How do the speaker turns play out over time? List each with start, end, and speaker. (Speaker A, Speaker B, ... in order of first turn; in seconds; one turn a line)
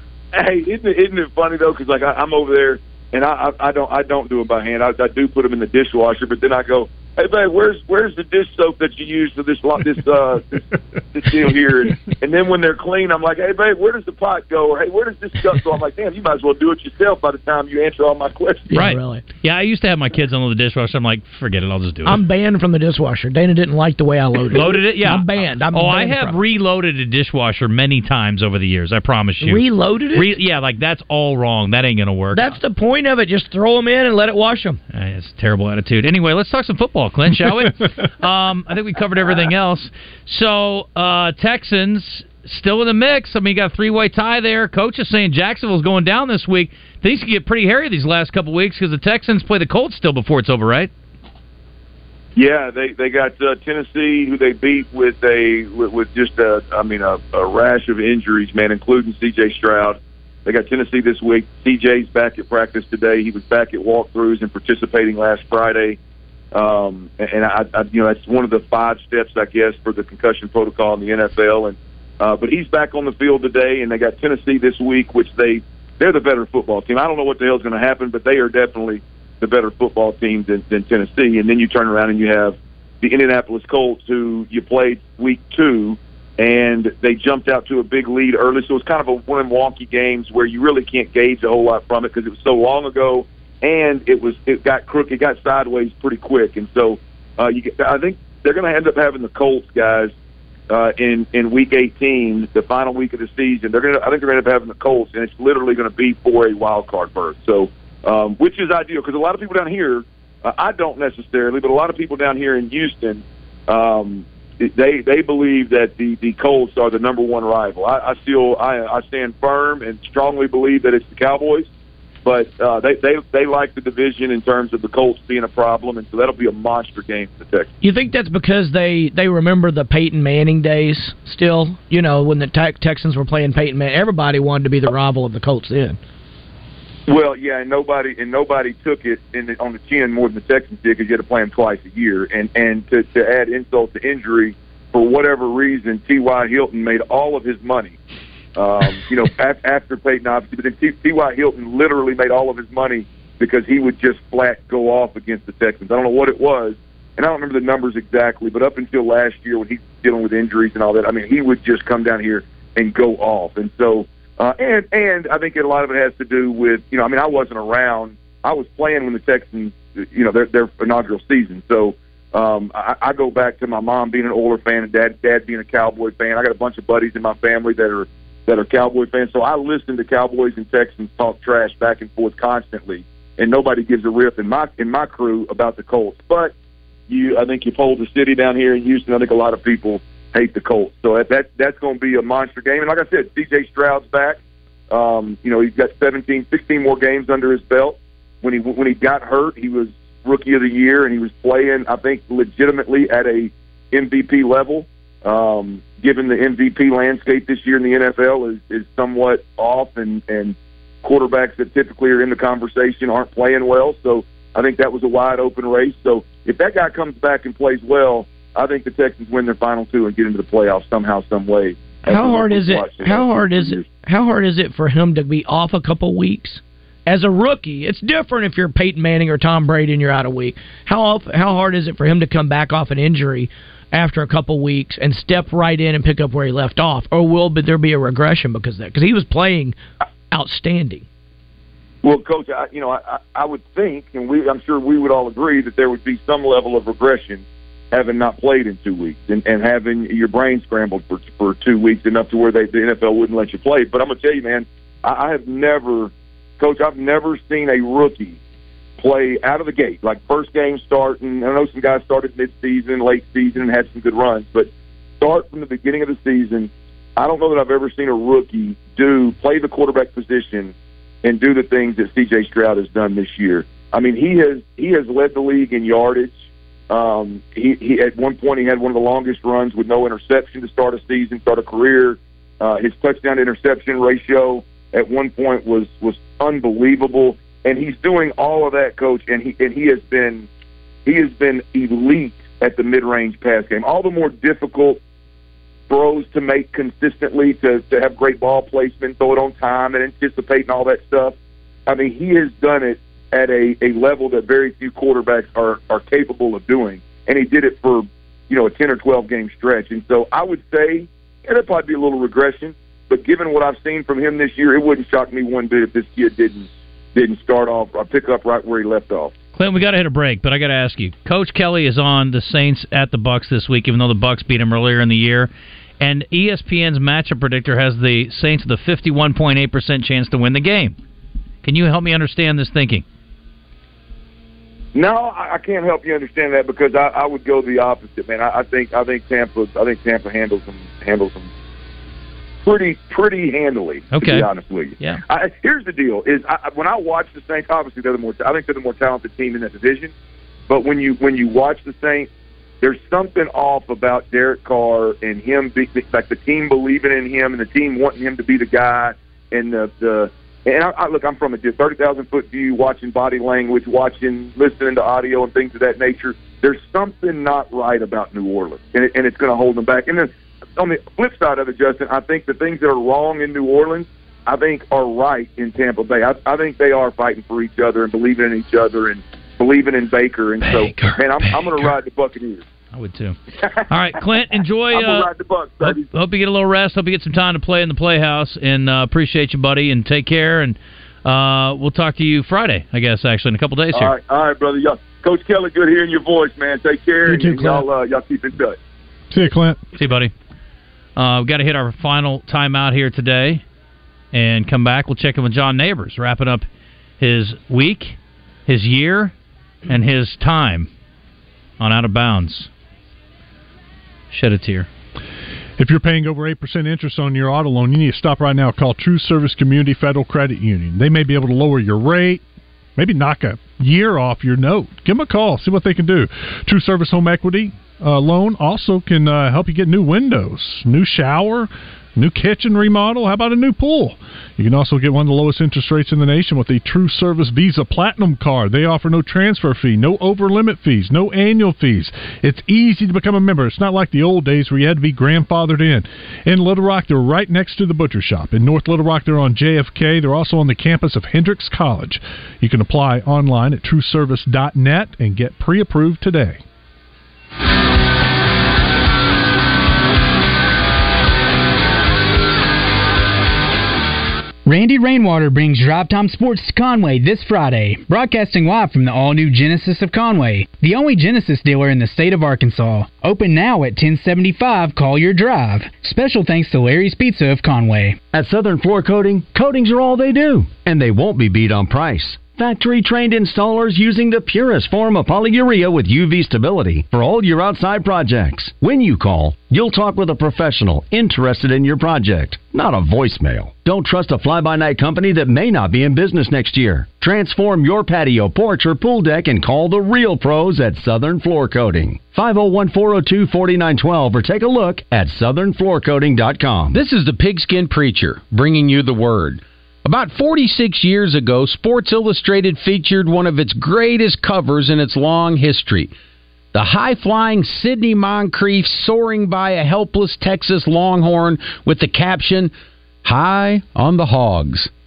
Speaker A: 0.3-18.7
Speaker B: 18.7-19.2
Speaker C: 18.7-22.2
Speaker B: 22.1-26.4
Speaker C: 24.5-32.6
Speaker B: 29.4-30.4
Speaker B: 32.3-34.8
Speaker C: 34.9-50.9
Speaker A: 52.4-66.0
Speaker A: 66.5-100.1
Speaker A: 100.7-121.7
Speaker A: 122.2-127.7
Speaker B: 127.8-136.0
Speaker A: 137.1-148.0
Speaker A: 148.6-186.5
Speaker A: 187.1-194.4
Speaker A: 194.9-223.9
Speaker B: 222.1-239.8
Speaker B: 240.3-241.1
Speaker A: 242.0-258.4
Speaker A: 259.0-276.4
Speaker A: 276.9-290.5
Speaker A: 291.1-295.0
Speaker A: 295.9-301.4
Speaker A: 301.9-319.3
Speaker C: 319.5-331.0
Speaker C: 331.6-333.1
Speaker A: 334.9-341.5
Speaker A: 342.6-350.1
Speaker C: 344.1-345.2
Speaker A: 350.7-352.3
Speaker A: 352.8-382.6
Speaker C: 380.6-381.9
Speaker C: 382.9-385.3
Speaker A: 384.9-386.1
Speaker C: 385.8-394.1
Speaker A: 393.9-398.8
Speaker B: 397.3-397.9
Speaker D: 399.3-399.8
Speaker C: 399.9-400.3
Speaker C: 401.2-403.6
Speaker C: 404.3-406.7
Speaker C: 407.2-409.3
Speaker C: 409.9-410.9
Speaker C: 411.8-412.7
Speaker C: 414.3-414.9
Speaker D: 415.8-422.4
Speaker D: 423.0-456.6
Speaker E: 464.6-478.2
Speaker F: 478.3-507.0
Speaker G: 506.9-516.1
Speaker G: 516.7-522.7
Speaker G: 523.2-524.9